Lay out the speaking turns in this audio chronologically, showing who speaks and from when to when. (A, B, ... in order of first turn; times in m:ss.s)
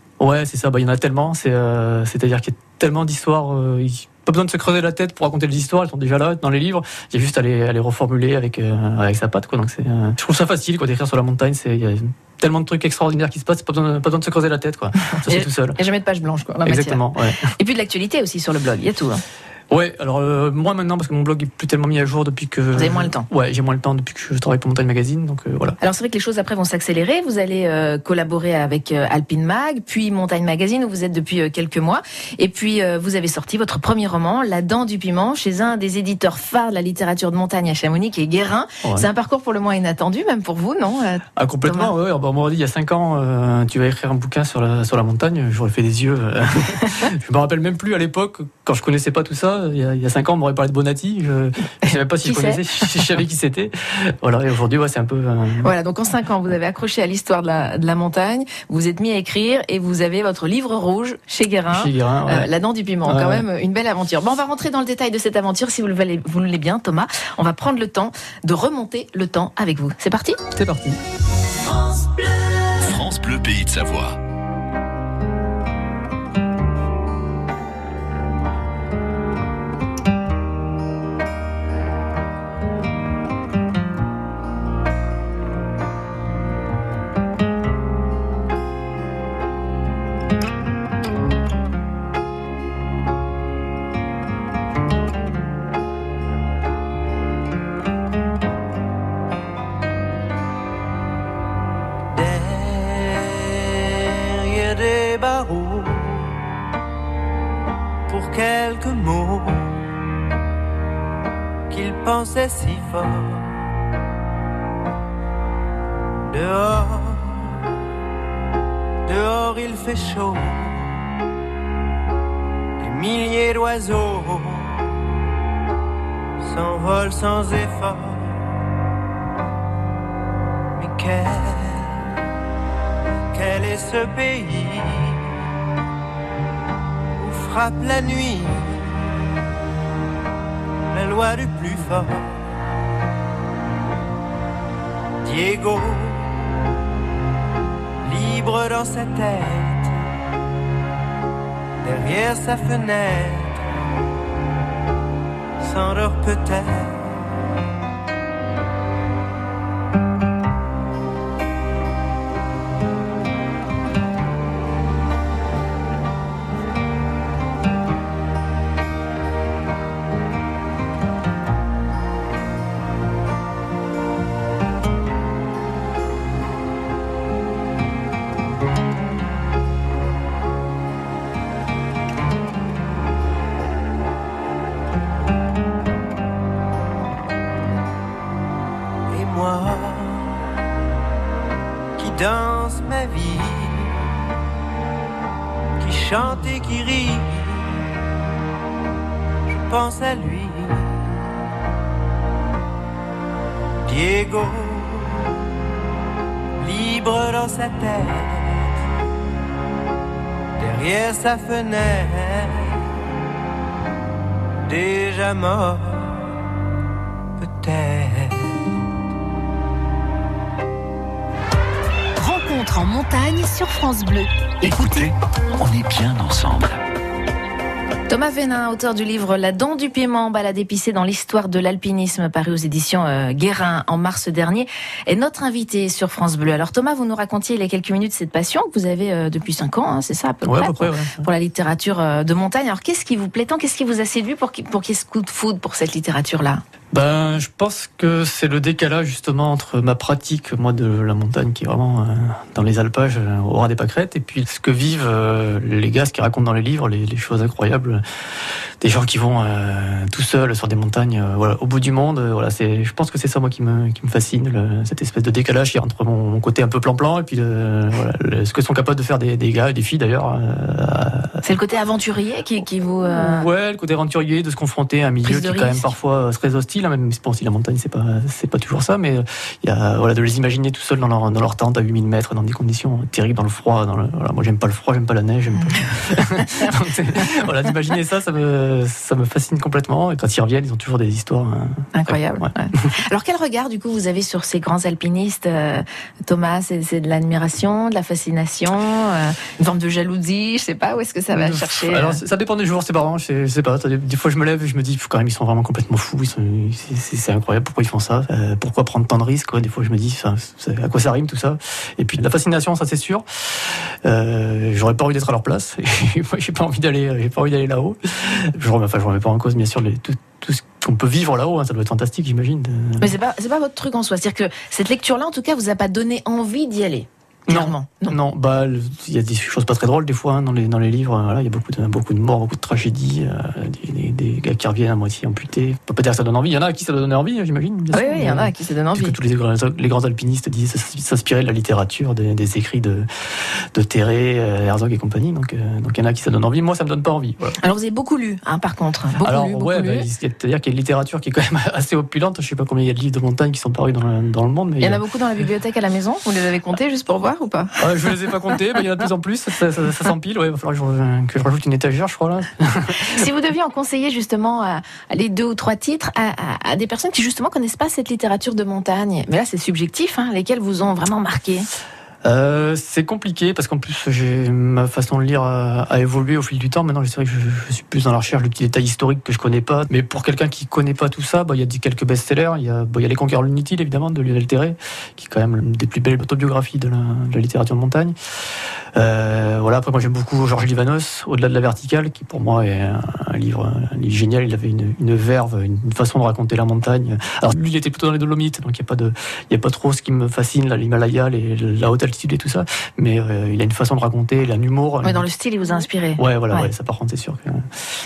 0:00.2-0:15.8 A
0:15.2-0:19.2 B
0:16.6-0:17.5 A
0:19.7-0:25.8 A
0:22.7-0:23.3 B
0:25.8-0:41.9 B
0:41.4-0:55.7 A
0:52.2-0:52.6 B
0:55.6-1:10.4 B
1:01.7-1:02.5 A
1:03.0-1:03.4 A
1:10.5-1:11.0 A
1:12.8-1:14.2 C
1:42.1-1:46.4 D
1:48.1-1:49.9 D
1:51.7-1:53.5 D
1:56.3-1:57.6 D
1:59.0-2:01.0 D
2:02.8-2:04.9 D
2:06.4-2:08.4 D
2:10.8-2:12.1 D
2:13.3-2:15.3 D
2:17.2-2:19.1 D
2:20.9-2:22.4 D
2:25.2-2:26.5 D
2:28.0-2:29.9 D
2:31.8-2:33.6 D
2:35.6-2:37.1 D
3:09.1-3:10.3 D
3:12.0-3:14.0 D
3:15.8-3:17.8 D
3:19.5-3:21.1 D
3:23.8-3:25.4 D
3:26.6-3:28.7 D
3:30.6-3:32.8 D
3:34.7-3:36.3 D
3:37.4-3:38.6 D
3:42.2-3:45.1 E
3:44.6-3:46.8 C
3:48.1-4:06.6 B
4:00.4-4:01.3 A
4:06.9-4:18.0 A
4:18.8-4:31.4 A
4:31.4-4:33.4 B
4:33.1-4:52.9 A
4:35.2-4:35.9 B
4:51.9-5:02.2 B
5:01.3-5:23.2 A
5:23.0-5:28.2 B
5:27.5-5:47.6 A
5:37.9-5:39.1 B
5:47.6-5:50.1 B
5:49.2-5:55.0 A
5:54.8-5:57.8 B
5:57.8-6:03.2 A
6:03.1-6:11.7 B
6:12.2-6:28.2 A
6:28.9-6:45.3 A
6:45.0-6:46.7 B
6:46.2-6:47.7 A